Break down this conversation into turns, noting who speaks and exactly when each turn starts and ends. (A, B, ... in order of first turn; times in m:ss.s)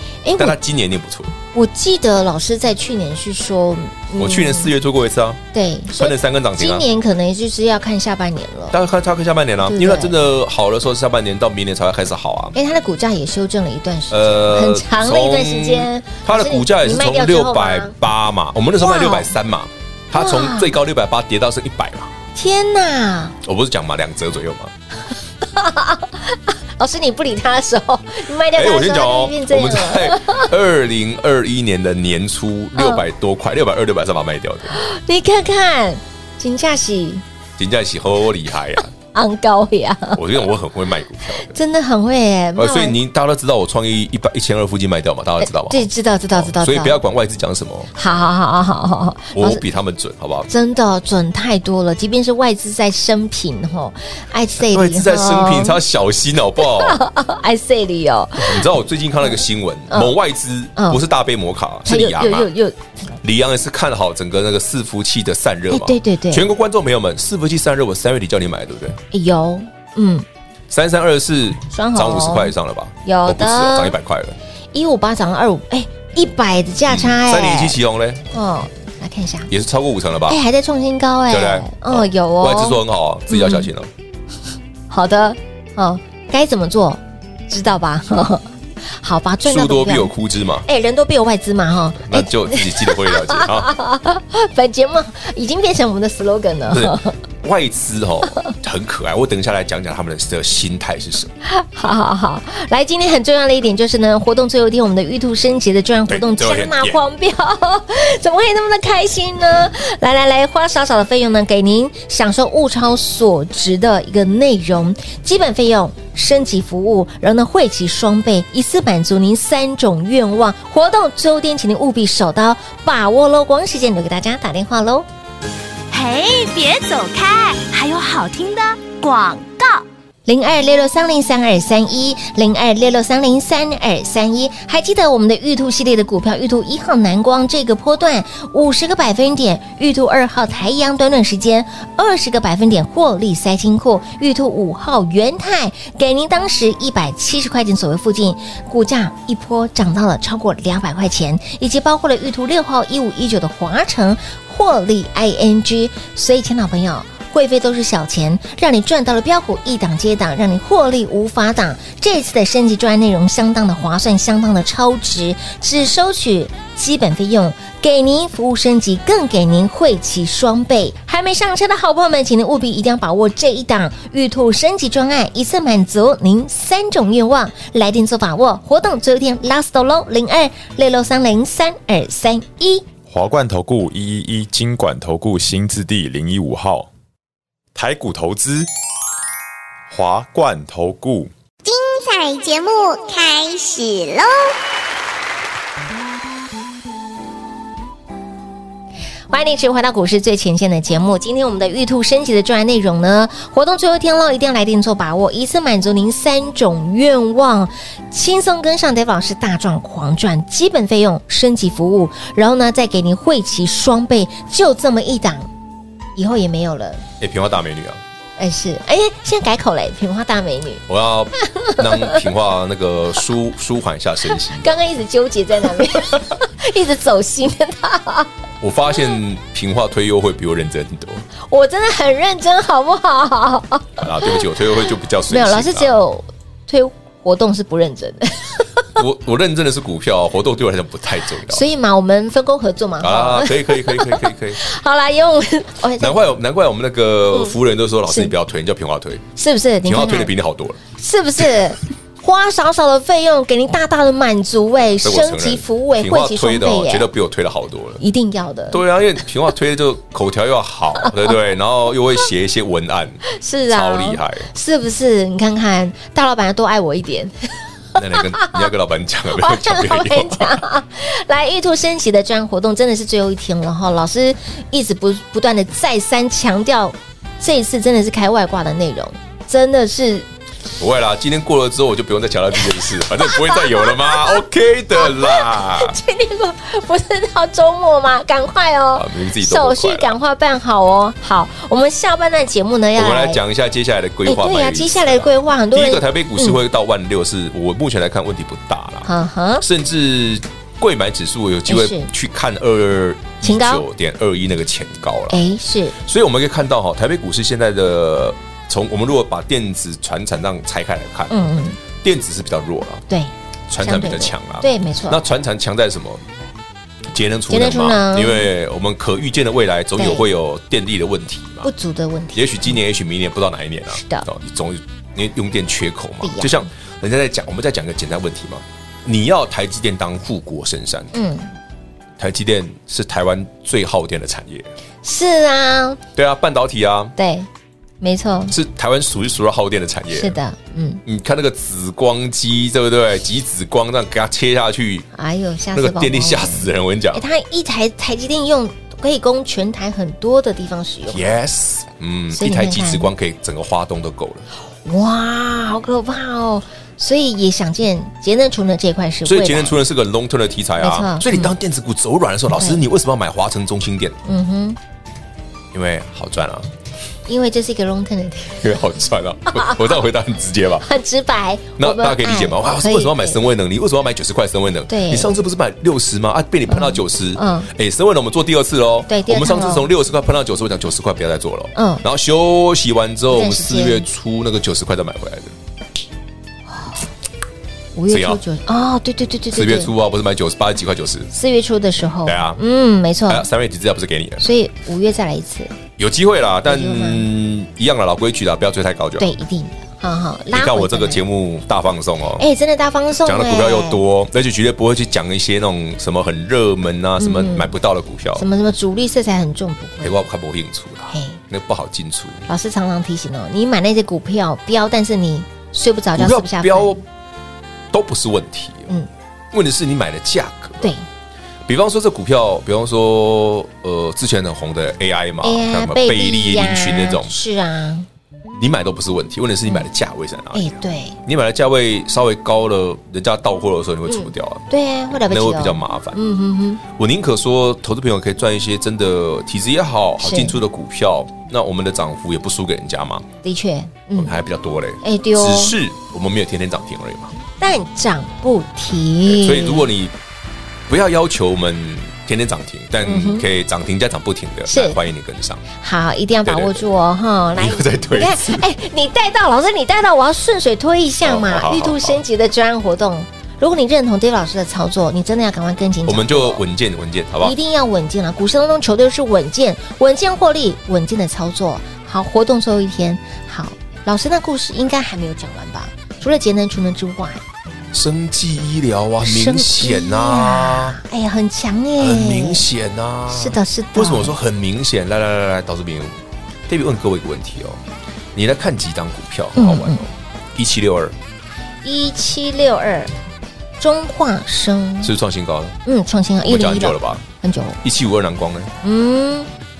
0:00.2-0:00.6 A
0:00.4-0:01.3 B
0:01.5-0:04.7 A
0:04.2-0:05.4 B
0:05.5-0:08.8 A
0:05.9-0:06.9 B
0:08.7-0:12.6 B
0:09.6-0:10.2 A
0:12.6-0:18.0 A
0:14.1-0:22.1 B
0:18.8-0:19.3 A
0:20.2-0:20.7 A
0:22.4-0:23.4 A
0:23.4-0:24.7 B
0:25.4-0:30.5 A
0:28.6-0:34.8 B
0:32.8-0:33.0 A
0:34.7-0:37.2 A
0:37.6-0:38.9 B
0:39.1-0:40.4 A
0:40.2-0:41.6 B
0:41.3-0:43.0 A
0:42.6-0:47.9 B
0:45.4-0:47.0 A
0:48.0-0:49.6 A
0:49.3-0:50.5 B
0:50.5-0:55.8 A
0:54.6-0:57.0 B
0:56.6-0:58.7 A
0:58.4-1:02.5 B
0:59.9-1:00.2 A
1:00.8-1:01.0 A
1:01.9-1:02.9 A
1:03.2-1:09.0 B
1:05.7-1:06.5 A
1:09.1-1:10.2 A
1:10.7-1:14.4 B
1:11.7-1:12.5 A
1:13.0-1:14.0 A
1:14.7-1:17.8 A
1:16.9-1:18.3 B
1:18.3-1:19.5 A
1:19.5-1:20.4 B
1:20.3-1:23.7 A
1:21.3-1:23.9 B
1:24.9-1:30.1 A
1:29.4-1:30.7 B
1:30.6-1:37.2 A
1:32.0-1:33.7 B
1:36.7-1:41.3 B
1:41.4-2:05.1 A
1:46.1-1:47.0 B
2:05.9-2:09.8 C
2:10.3-3:02.9 A
3:03.1-3:06.9 D
3:07.8-3:08.7 D
3:09.9-3:11.3 D
3:11.6-3:14.5 E
3:19.3-3:35.5 A
3:36.2-3:37.0 A
3:37.2-3:38.0 B
3:38.4-3:40.8 A
3:40.9-3:44.7 B
3:41.4-3:42.3 A
3:44.4-3:48.3 A
3:48.6-3:51.3 B
3:51.5-3:54.4 A
3:54.0-3:56.0 B
3:55.3-3:58.9 A
3:59.0-4:01.7 B
4:01.5-4:06.2 A
4:03.0-4:04.6 B
4:06.0-4:09.2 B
4:07.3-4:07.6 A
4:08.1-4:08.3 A
4:09.4-4:10.3 A
4:09.8-4:10.8 B
4:11.0-4:17.1 A
4:15.0-4:18.0 B
4:18.0-4:18.8 A
4:18.7-4:24.5 B
4:23.3-4:28.7 A
4:28.0-4:30.6 B
4:29.3-4:40.3 A
4:40.8-4:46.0 B
4:43.2-4:44.4 A
4:44.9-4:53.4 A
4:48.9-4:50.2 B
4:53.0-4:59.1 B
4:54.2-4:56.6 A
4:59.0-4:59.6 A
4:59.6-5:05.4 B
5:01.7-5:02.1 A
5:03.4-5:03.8 A
5:05.3-5:06.0 A
5:06.0-5:13.1 B
5:11.3-5:11.8 A
5:13.1-5:15.2 A
5:13.7-5:16.2 B
5:17.1-5:21.7 B
5:17.5-5:18.5 A
5:20.0-5:20.3 A
5:21.6-5:22.8 A
5:22.3-5:31.1 B
5:23.9-5:24.3 A
5:26.2-5:26.7 A
5:31.1-5:31.5 A
5:32.2-5:34.7 B
5:35.0-5:36.0 A
5:36.2-5:37.2 B
5:37.2-5:37.5 A
5:38.0-5:38.5 A
5:38.5-5:40.4 B
5:40.1-5:41.0 A
5:41.0-5:45.1 B
5:45.1-5:51.3 A
5:45.7-5:47.2 B
5:51.1-5:54.5 B
5:52.3-5:53.1 A
5:54.8-5:59.8 A
5:59.2-6:04.2 B
6:00.8-6:01.5 A
6:02.6-6:02.8 A
6:04.2-6:04.8 A
6:05.7-6:06.7 B
6:07.3-6:08.7 A
6:08.6-6:10.9 B
6:09.5-6:10.0 A
6:10.8-6:13.4 A
6:11.8-6:25.6 B
6:14.9-6:15.3 A
6:16.7-6:17.7 A
6:19.1-6:19.9 A
6:21.8-6:22.0 A
6:23.3-6:24.1 A
6:28.0-6:29.9 A
6:28.1-6:28.4 B
6:29.5-6:31.3 B
6:31.3-6:33.5 A
6:32.2-6:32.6 B
6:33.3-6:34.5 B
6:34.4-6:35.7 A
6:36.0-6:39.4 B
6:36.7-6:37.3 A
6:39.2-6:41.2 A
6:40.5-6:42.4 B
6:42.4-6:44.0 A
6:43.3-6:48.4 B
6:47.2-6:47.7 A
6:48.4-6:50.2 A
6:50.0-6:52.5 B
6:51.1-6:51.4 A
6:52.5-6:57.0 A
6:56.2-6:57.0 B
6:57.9-6:58.9 B
6:59.5-7:00.9 B
7:01.7-7:07.3 B
7:05.4-7:08.1 A
7:08.6-7:16.2 B
7:10.5-7:11.2 A
7:14.1-7:16.8 A
7:16.9-7:23.3 B
7:20.2-7:20.6 A
7:23.4-7:24.4 A
7:24.2-7:27.3 B
7:25.0-7:25.8 A
7:27.6-7:29.9 A
7:29.2-7:30.2 B
7:30.9-7:35.6 B
7:33.0-7:33.5 A
7:34.7-7:35.0 A
7:35.7-7:46.6 A
7:36.4-7:36.9 B
7:37.6-7:38.6 B
7:41.2-7:42.2 B
7:46.1-7:47.6 B
7:47.4-7:57.4 A
7:57.9-8:01.0 B
7:59.2-8:02.6 A
8:02.0-8:06.2 B
8:03.3-8:04.4 A
8:06.7-8:07.8 B
8:08.3-8:11.2 B
8:09.6-8:10.0 A
8:11.8-8:13.1 A
8:13.8-8:15.1 A
8:15.0-8:15.8 B
8:15.9-8:17.8 A
8:16.4-8:17.2 B
8:17.8-8:18.7 B
8:18.8-8:19.5 A